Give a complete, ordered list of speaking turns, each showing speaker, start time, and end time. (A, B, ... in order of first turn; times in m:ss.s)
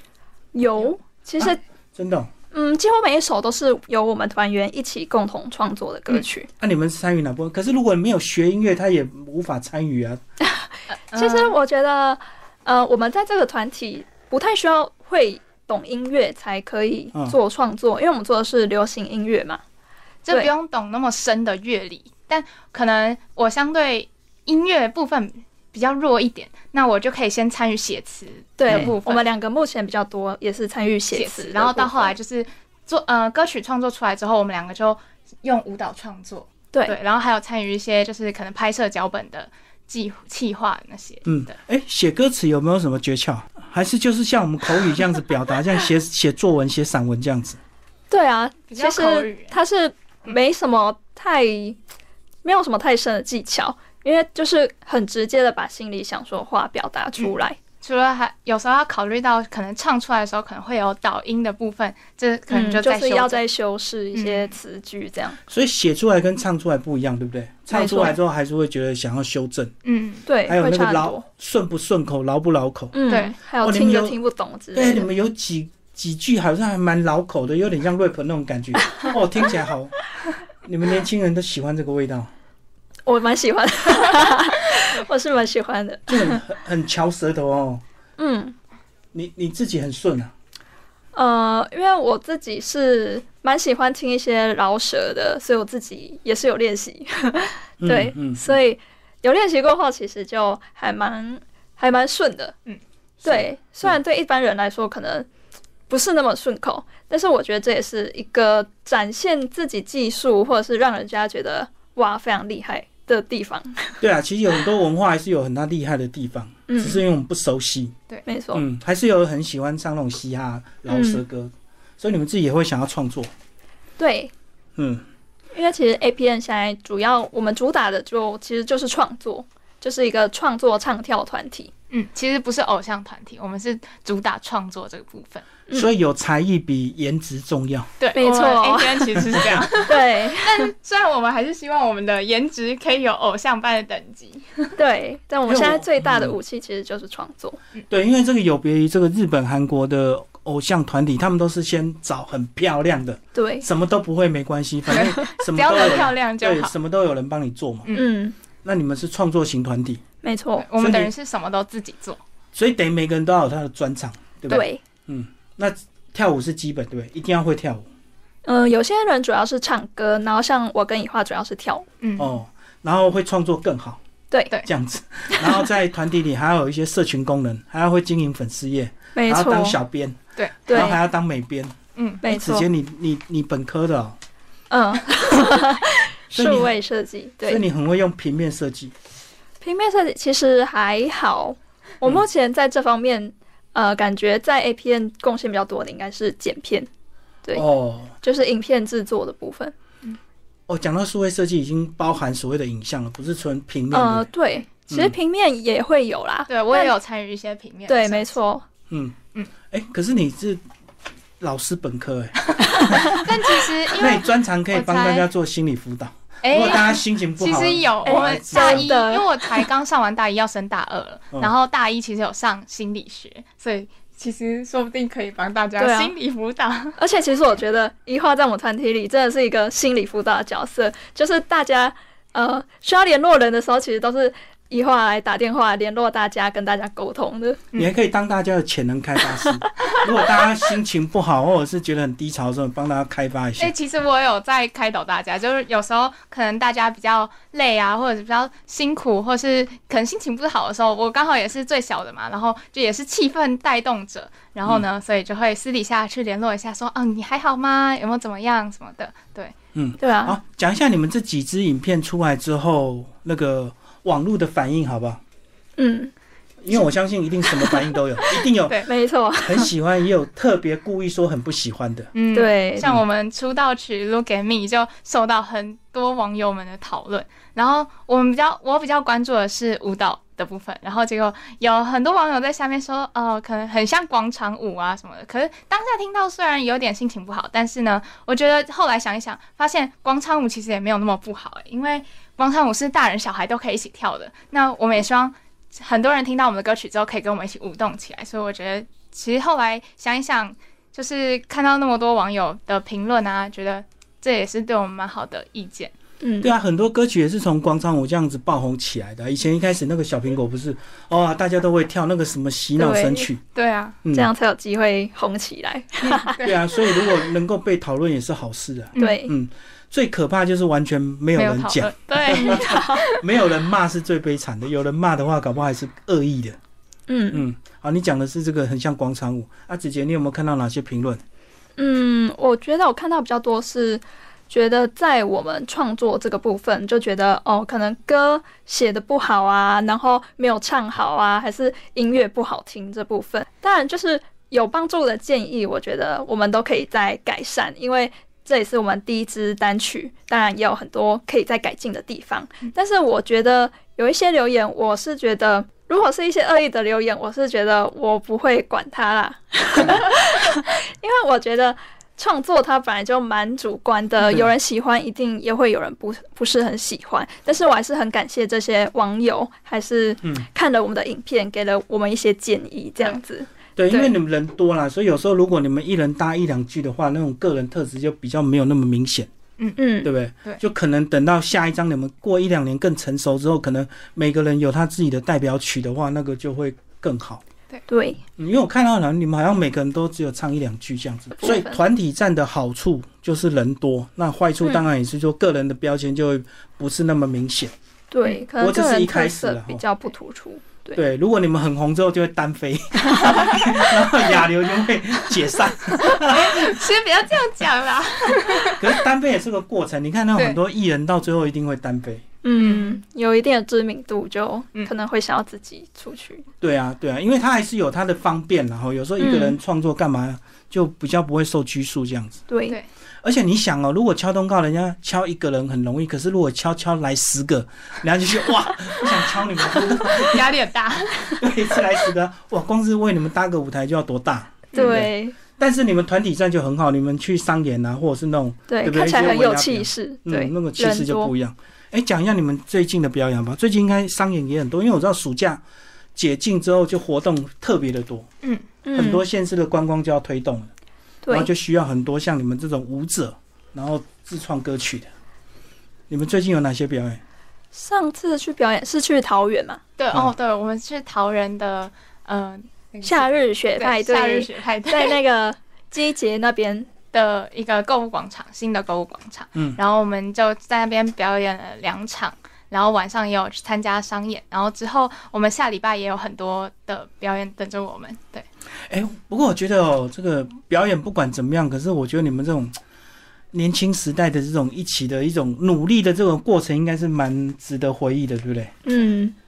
0:00.5-0:01.6 A
0:01.4-0:02.3 B
0:02.5-0:06.5 A
0:06.6-0:10.2 B
0:10.4-0:19.6 A
0:10.9-0:11.6 C
0:20.2-0:29.2 C
0:28.6-0:32.2 A
0:31.1-0:41.5 C
0:41.3-0:47.6 B
0:48.1-0:51.8 A
0:48.7-0:49.5 C
0:52.4-0:57.6 A
0:57.2-1:03.4 C
1:02.5-1:05.4 A
1:04.1-1:04.6 C
1:05.5-1:09.7 B
1:07.7-1:08.2 A
1:09.8-1:10.3 C
1:10.3-1:11.3 A
1:10.5-1:13.0 B
1:12.9-1:15.1 A
1:13.1-1:13.4 C
1:13.6-1:14.2 B
1:14.7-1:20.0 B
1:20.6-1:22.3 B
1:23.1-1:26.4 A
1:26.1-1:27.8 B
1:28.2-1:28.6 A
1:29.1-1:30.3 B
1:31.1-1:42.6 A
1:37.8-1:38.6 B
1:43.2-1:44.0 B
1:43.2-1:45.3 A
1:45.9-1:54.0 A
1:54.0-1:57.9 B
1:56.7-1:57.0 A
1:58.3-1:58.6 A
1:58.5-2:03.3 B
2:00.9-2:01.2 A
2:04.0-2:04.3 A
2:04.8-2:05.0 B
2:05.5-2:11.7 A
2:11.9-2:15.5 C
2:15.7-2:17.9 B
2:18.0-2:24.8 C
2:18.2-2:19.3 A
2:19.8-2:20.7 A
2:24.8-2:27.6 A
2:25.5-2:26.4 B
2:27.9-2:38.0 B
2:33.4-2:33.7 A
2:34.9-2:36.7 C
2:37.9-2:38.4 A
2:38.6-2:40.0 B
2:40.2-2:40.7 A
2:40.6-2:42.2 C
2:40.8-2:41.1 B
2:42.5-2:47.9 B
2:44.5-2:44.8 A
2:48.4-2:51.9 A
2:52.0-2:52.3 C
2:52.2-2:54.0 B
2:54.3-2:54.6 A
2:54.6-3:04.2 B
2:59.2-2:59.8 A
3:00.7-3:01.0 A
3:02.0-3:02.2 C
3:02.2-3:02.7 A
3:04.7-3:07.6 A
3:06.3-3:06.7 B
3:07.4-3:08.9 B
3:09.6-3:16.9 A
3:17.5-3:18.2 B
3:18.2-3:19.7 A
3:20.7-3:24.3 B
3:23.9-3:26.9 A
3:24.9-3:25.2 B
3:26.5-3:28.3 C
3:27.9-3:28.7 A
3:28.9-3:29.2 B
3:29.7-3:30.6 B
3:31.4-3:33.2 B
3:32.9-3:35.3 C
3:34.0-3:39.0 B
3:36.4-3:47.0 C
3:38.0-3:39.6 A
3:45.8-3:46.1 A
3:47.0-3:57.6 A
3:57.8-4:03.7 B
4:03.6-4:19.5 C
4:19.8-4:25.2 B
4:20.0-4:20.4 A
4:25.8-4:26.1 A
4:26.6-4:32.1 B
4:27.6-4:27.8 A
4:28.6-4:28.9 C
4:28.9-4:29.7 A
4:32.2-5:05.9 C
4:32.3-4:32.9 A
5:06.2-5:06.5 A
5:06.4-5:13.4 B
5:12.8-5:13.3 A
5:13.6-5:14.0 C
5:14.0-5:14.3 B
5:14.1-5:16.4 A
5:16.0-5:26.6 B
5:16.4-5:16.7 C
5:19.0-5:19.3 A
5:21.4-5:23.2 C
5:22.3-5:23.0 A
5:27.1-5:27.4 A
5:27.3-5:31.2 B
5:31.8-6:14.1 A
6:13.8-6:19.3 B
6:19.8-6:20.1 A
6:20.0-6:27.4 B
6:27.9-6:28.2 A
6:28.4-6:37.7 B
6:31.4-6:31.8 A
6:38.1-6:41.0 A
6:38.6-6:39.8 B
6:40.9-6:46.8 B
6:43.2-6:43.6 A
6:46.0-6:49.0 C
6:48.7-6:52.2 B
6:52.4-6:56.5 A
6:52.6-6:53.0 C
6:56.6-7:02.4 B
6:59.2-6:59.6 C
7:02.5-7:02.8 A
7:03.2-7:10.4 B
7:10.0-7:11.4 C
7:11.4-7:25.6 B
7:14.7-7:15.4 A
7:18.7-7:21.3 A
7:26.2-7:28.3 B
7:28.8-7:29.2 A
7:28.9-7:30.7 B
7:31.2-7:31.5 A
7:31.3-7:35.1 B
7:36.1-7:37.2 B
7:37.7-7:39.8 A
7:40.0-7:45.2 C
7:43.0-7:46.9 A
7:47.1-7:58.4 C
7:58.9-8:02.7 B
8:03.5-8:08.8 B
8:08.8-8:09.4 A